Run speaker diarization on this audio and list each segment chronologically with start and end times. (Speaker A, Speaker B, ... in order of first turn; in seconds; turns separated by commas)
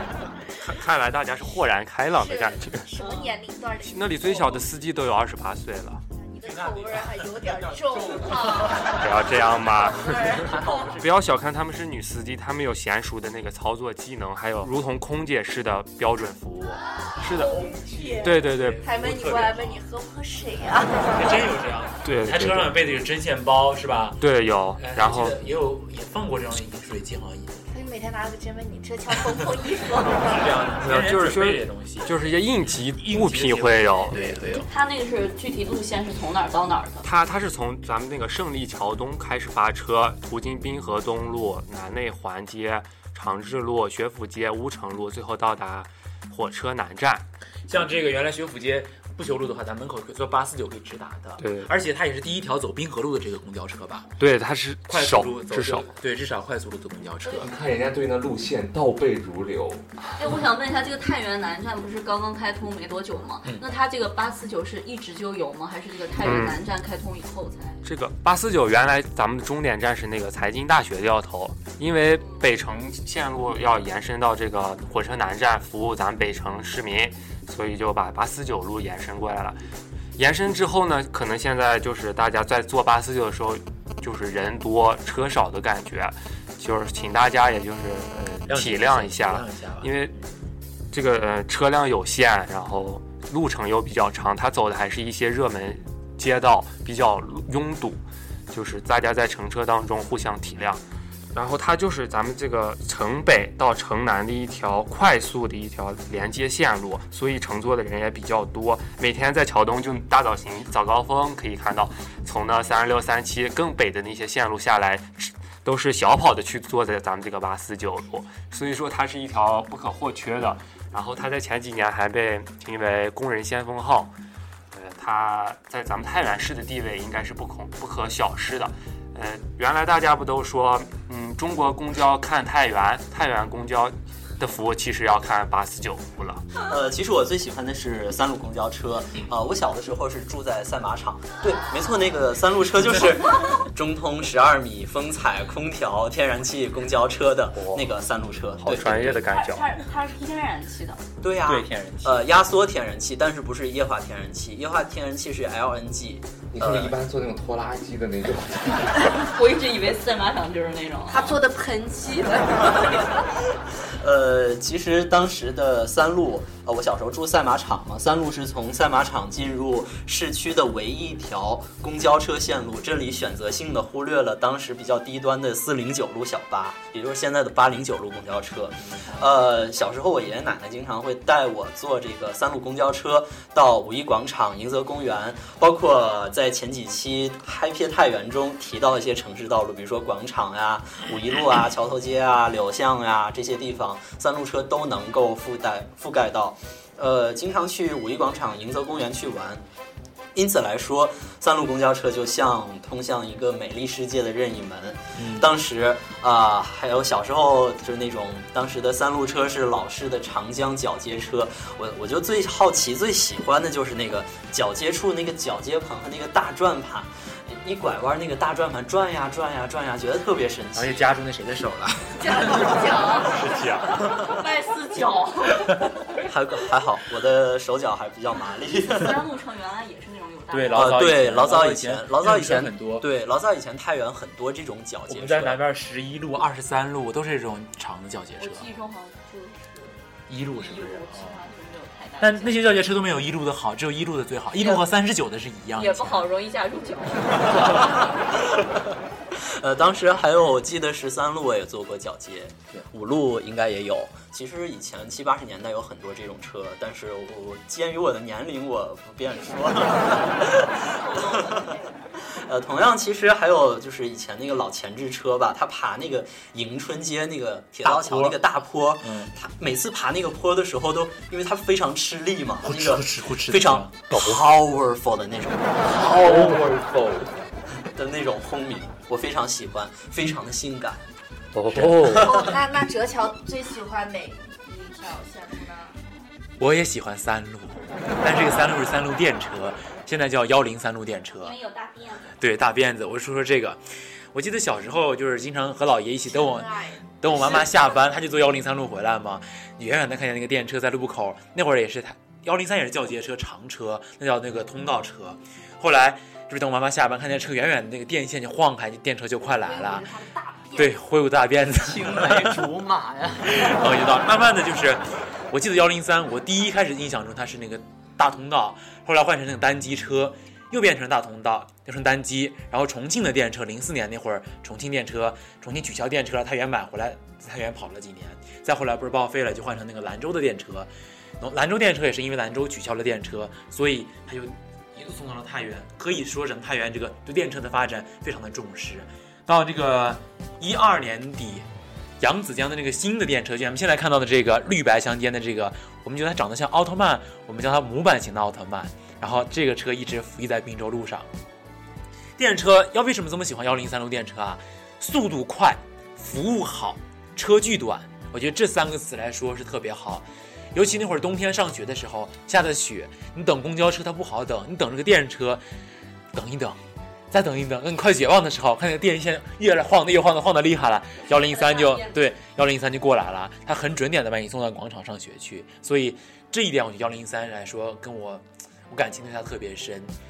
Speaker A: 0.6-2.9, Speaker B: 2.1-4.7, Speaker C: 3.0-3.3, Speaker A: 3.8-6.0, Speaker B: 6.2-10.9, Speaker A: 9.0-17.6, Speaker B: 17.3-21.1, Speaker D: 17.9-19.8, Speaker A: 18.2-18.8, Speaker D: 21.1-24.2, Speaker A: 22.0-22.7, Speaker A: 24.2-25.4, Speaker D: 24.8-27.6, Speaker B: 27.7-30.3, Speaker D: 30.1-34.7, Speaker A: 30.8-34.2, Speaker C: 34.5-37.0, Speaker A: 37.0-47.2, Speaker D: 47.7-54.1, Speaker A: 51.4-51.7, Speaker A: 54.2-55.9, Speaker D: 54.9-57.5, Speaker E: 57.4-59.8, Speaker C: 60.2-67.8, Speaker A: 66.2-66.6, Speaker A: 67.8-79.6, Speaker A: 80.2-90.1, Speaker D: 88.5-89.9, Speaker A: 90.9-100.8, Speaker A: 101.3-124.1, Speaker A: 124.7-136.4, Speaker F: 136.6-149.2, Speaker A: 148.6-149.7, Speaker C: 149.3-151.0, Speaker F: 151.2-156.9, Speaker D: 151.4-152.3, Speaker E: 156.5-159.1, Speaker C: 159.2-161.4, Speaker B: 161.1-163.2, Speaker F: 164.0-199.6, Speaker F: 200.3-221.1, Speaker D: 205.1-205.4, Speaker D: 220.7-222.4, Speaker B: 222.2-223.5, Speaker A: 223.4-223.9, Speaker C: 224.2-225.7, Speaker F: 226.2-229.2, Speaker C: 228.9-231.0, Speaker D: 230.5-233.1, Speaker F: 230.7-235.6, Speaker D: 235.1-238.7, Speaker C: 238.4-239.9, Speaker D: 240.3-241.4, Speaker C: 240.5-242.7, Speaker D: 242.2-246.3, Speaker C: 245.8-248.0, Speaker F: 249.4-261.7, Speaker C: 260.8-261.9, Speaker F: 262.3-275.8, Speaker D: 267.8-268.4, Speaker D: 269.0-269.3, Speaker D: 272.6-273.9, Speaker D: 275.9-277.2, Speaker A: 276.2-276.6, Speaker F: 277.9-281.0, Speaker A: 281.5-282.4, Speaker D: 281.7-282.2, Speaker B: 282.1-285.9, Speaker D: 286.6-291.5, Speaker C: 291.4-292.3, Speaker D: 292.3-293.8, Speaker D: 294.3-310.1, Speaker B: 296.2-298.1, Speaker C: 309.8-310.4, Speaker B: 310.6-310.9, Speaker D: 310.7-312.7, Speaker F: 312.0-313.1, Speaker D: 313.4-341.6, Speaker D: 342.2-351.3, Speaker D: 352.4-365.6, Speaker D: 366.3-366.8, Speaker D: 367.3-380.1, Speaker C: 371.3-372.2